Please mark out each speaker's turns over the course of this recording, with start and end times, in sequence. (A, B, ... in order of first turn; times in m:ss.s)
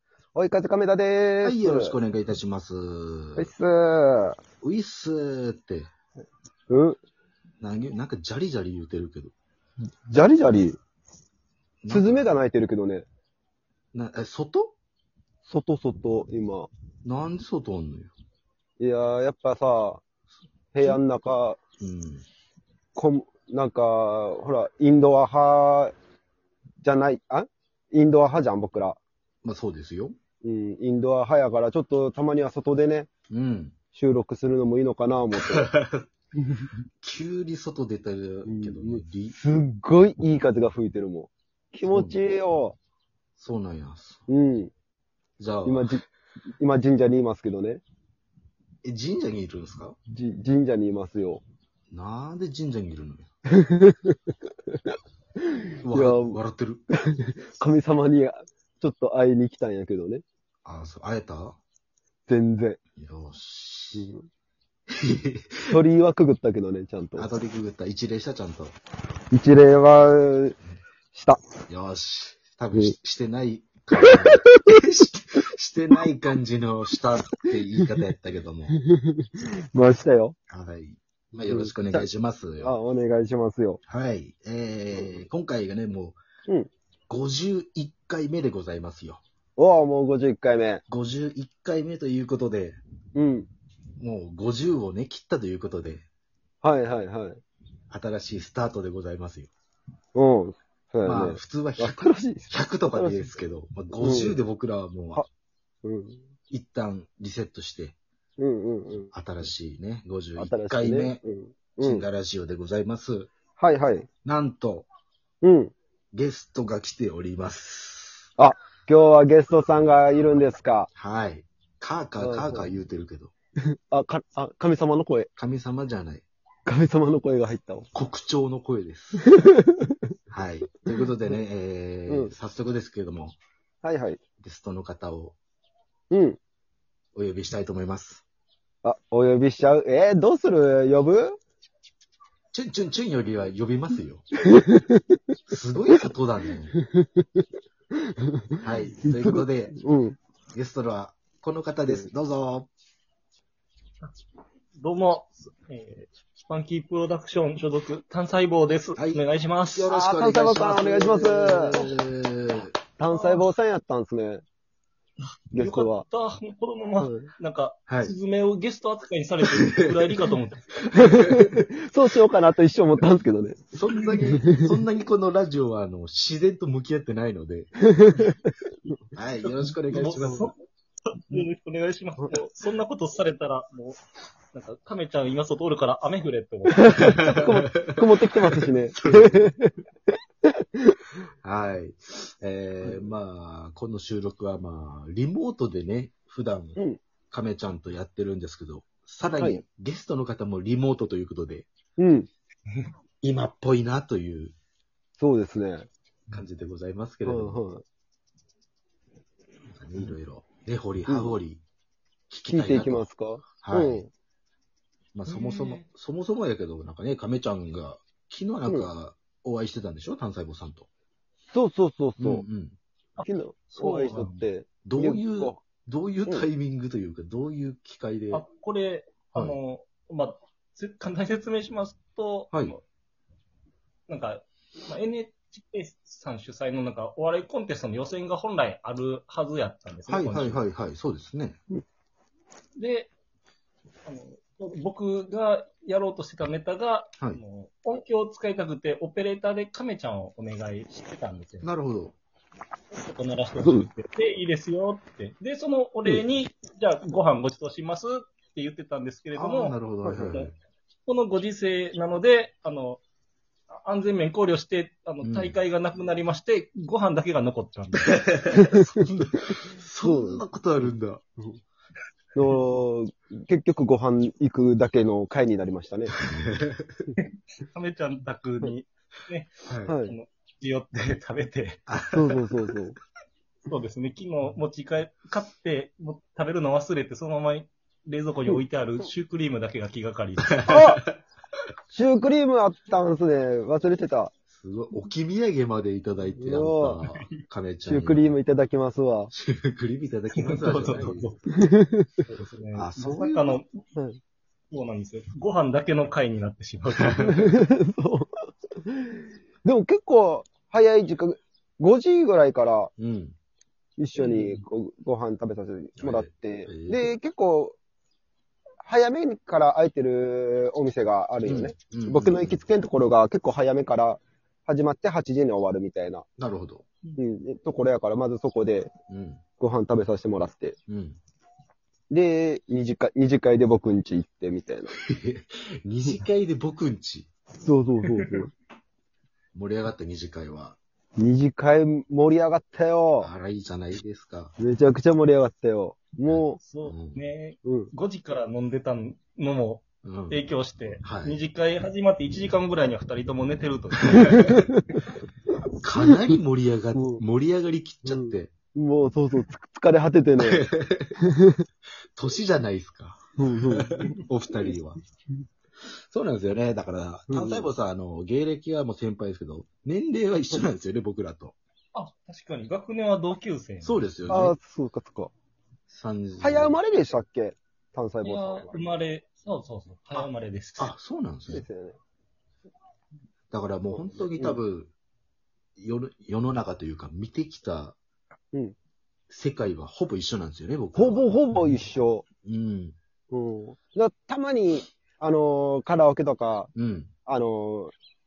0:00.4-0:02.0 A
0:01.4-0:03.5 B
0:03.4-0:04.4 A
0:04.6-0:05.9 B
0:06.7-0:07.0 A
0:07.6-0:09.3 B
0:10.1-0:10.8 A
0:11.8-0:12.3 B
0:11.9-0:13.1 A
0:13.9-0:14.8 B
0:15.5-0:16.7 A
0:17.0-0:18.1 B
0:18.8-0:20.0 A
0:20.7-0:21.6 A
0:21.8-0:22.2 B
0:23.0-0:25.9 A
0:26.8-0:29.0 A
0:29.4-0:30.2 B
0:30.4-0:33.1 A
0:33.3-0:33.8 B
0:33.9-0:35.7 A
0:35.5-0:36.1 B
0:37.0-0:39.4 B
0:38.4-0:42.8 A
0:41.9-0:42.2 B
0:43.4-0:44.2 B
0:44.3-0:44.7 A
0:45.4-0:46.0 B
0:45.6-0:46.0 A
0:46.6-0:47.8 A
0:48.8-0:50.0 B
0:50.1-0:51.4 A
0:51.9-0:53.3 B
0:53.5-0:54.2 A
0:55.4-0:56.4 A
0:55.8-0:56.8 B
0:57.1-1:00.2 A
1:00.6-1:01.6 B
1:02.3-1:02.8 A
1:03.0-1:04.1 B
1:04.0-1:04.3 A
1:05.0-1:05.8 B
1:05.7-1:07.3 A
1:07.2-1:08.8 B
1:09.3-1:10.6 A
1:11.1-1:11.4 A
1:11.7-1:18.8 B
1:14.1-1:14.6 A
1:18.9-1:20.4 A
1:20.5-1:22.7 B
1:21.5-1:22.1 A
1:22.6-1:23.8 A
1:23.9-1:26.2 B
1:24.9-1:25.2 A
1:27.1-1:29.2 B
1:29.6-1:30.8 A
1:30.9-1:32.8 B
1:33.2-1:33.5 A
1:34.0-1:36.1 B
1:36.6-1:37.4 A
1:37.9-1:39.5 B
1:40.2-1:43.3 A
1:41.0-1:45.2 B
1:44.0-1:44.4 A
1:45.8-1:46.2 A
1:46.5-1:48.0 B
1:48.4-1:49.1 A
1:49.1-1:51.2 B
1:50.4-1:52.0 A
1:51.8-1:53.3 B
1:53.6-1:54.1 A
1:54.2-1:54.9 B
1:55.4-1:55.7 A
1:56.1-1:58.3 B
1:58.4-2:00.9 A
2:01.0-2:03.3 B
2:02.2-2:02.7 A
2:03.9-2:05.3 A
2:05.4-2:06.2 B
2:06.7-2:07.9 A
2:07.9-2:09.4 B
2:09.3-2:10.0 A
2:10.3-2:13.4 B
2:12.1-2:12.3 A
2:13.8-2:14.2 A
2:14.4-2:15.4 B
2:16.1-2:16.4 A
2:17.2-2:18.2 B
2:18.8-2:21.4 A
2:22.5-2:24.3 B
2:24.5-2:25.2 A
2:25.5-2:26.7 B
2:26.8-2:30.2 A
2:28.6-2:29.8 B
2:30.5-2:32.7 B
2:34.8-2:39.9 C
2:39.0-2:42.8 B
2:39.9-2:41.9 A
2:43.0-2:44.4 A
2:43.1-2:43.4 C
2:45.5-2:50.6 C
2:45.5-2:46.0 A
2:47.0-2:47.3 A
2:47.9-2:48.1 B
2:49.5-2:49.9 B
2:50.8-2:51.6 B
2:51.0-2:53.7 A
2:53.7-2:57.7 B
2:54.2-2:54.7 A
2:57.9-2:58.4 A
2:59.1-3:00.5 B
2:59.4-3:04.0 C
3:00.2-3:00.4 A
3:04.5-3:07.6 C
3:06.8-3:09.7 A
3:07.1-3:07.9 B
3:09.0-3:09.5 B
3:11.4-3:16.8 B
3:17.3-3:21.7 B
3:22.0-3:22.3 A
3:23.2-3:24.5 B
3:25.2-3:25.9 A
3:26.3-3:27.6 B
3:27.3-3:27.8 A
3:29.7-3:31.6 B
3:31.1-3:31.4 A
3:32.3-3:33.1 B
3:32.5-3:34.1 A
3:33.6-3:34.0 B
3:35.2-3:40.9 B
3:35.3-3:35.8 C
3:41.5-3:42.4 A
3:42.2-3:42.8 B
3:43.2-3:44.3 C
3:43.2-3:45.6 A
3:44.0-3:48.4 B
3:48.3-3:52.8 C
3:54.1-4:00.6 C
4:00.1-4:01.6 B
4:02.8-4:03.1 C
4:04.1-4:11.7 C
4:11.6-4:12.2 B
4:12.9-4:19.8 C
4:13.6-4:13.9 A
4:19.4-4:20.5 B
4:20.0-4:20.4 A
4:21.1-4:23.0 C
4:23.8-4:28.6 C
4:25.2-4:25.6 B
4:28.6-4:29.0 A
4:28.7-4:31.2 B
4:30.0-4:30.4 A
4:32.4-4:36.1 A
4:36.2-4:36.9 B
4:37.2-4:42.2 C
4:39.7-4:39.9 B
4:39.9-4:40.2 A
4:41.9-4:42.2 B
4:42.1-4:43.0 A
4:43.7-4:50.8 C
4:50.6-4:51.2 B
4:50.7-4:51.0 A
4:51.9-4:54.3 A
4:54.5-4:58.4 B
4:56.4-4:57.0 A
4:57.9-4:59.3 A
4:59.3-5:01.3 B
5:00.3-5:01.4 C
5:01.6-5:02.2 A
5:02.2-5:03.8 C
5:02.8-5:03.6 B
5:04.7-5:07.6 C
5:07.3-5:08.3 A
5:08.9-5:12.9 A
5:13.0-5:13.4 B
5:14.0-5:17.8 A
5:14.2-5:14.6 C
5:16.0-5:17.1 B
5:18.8-5:26.2 A
5:21.4-5:22.6 B
5:26.4-5:26.8 B
5:27.2-5:28.9 A
5:29.1-5:29.4 B
5:29.6-5:30.8 A
5:30.9-5:31.2 B
5:32.1-5:34.9 A
5:34.9-5:37.3 B
5:37.6-5:38.5 A
5:39.5-5:40.8 B
5:41.2-5:43.3 A
5:43.2-5:44.5 B
5:44.6-5:46.6 A
5:46.3-5:47.2 B
5:46.6-5:54.6 C
5:47.6-5:47.9 A
5:50.0-5:50.4 B
5:51.0-5:51.4 B
5:54.0-5:54.6 B
5:54.3-5:54.8 A
5:55.8-5:58.5 B
5:56.9-5:57.2 A
5:58.0-6:00.6 A
6:00.4-6:01.2 B
6:01.2-6:01.6 A
6:02.2-6:05.0 B
6:03.4-6:04.1 A
6:05.9-6:11.6 B
6:07.3-6:07.7 A
6:12.0-6:14.0 C
6:13.8-6:14.6 B
6:14.3-6:15.3 A
6:15.9-6:16.8 B
6:16.4-6:18.8 A
6:18.2-6:20.9 C
6:20.8-6:21.6 B
6:21.5-6:22.0 A
6:23.5-6:24.9 B
6:25.8-6:28.0 B
6:29.3-6:31.4 B
6:31.0-6:32.2 A
6:32.4-6:33.0 B
6:33.3-6:36.7 A
6:36.8-6:37.1 B
6:37.3-6:37.9 A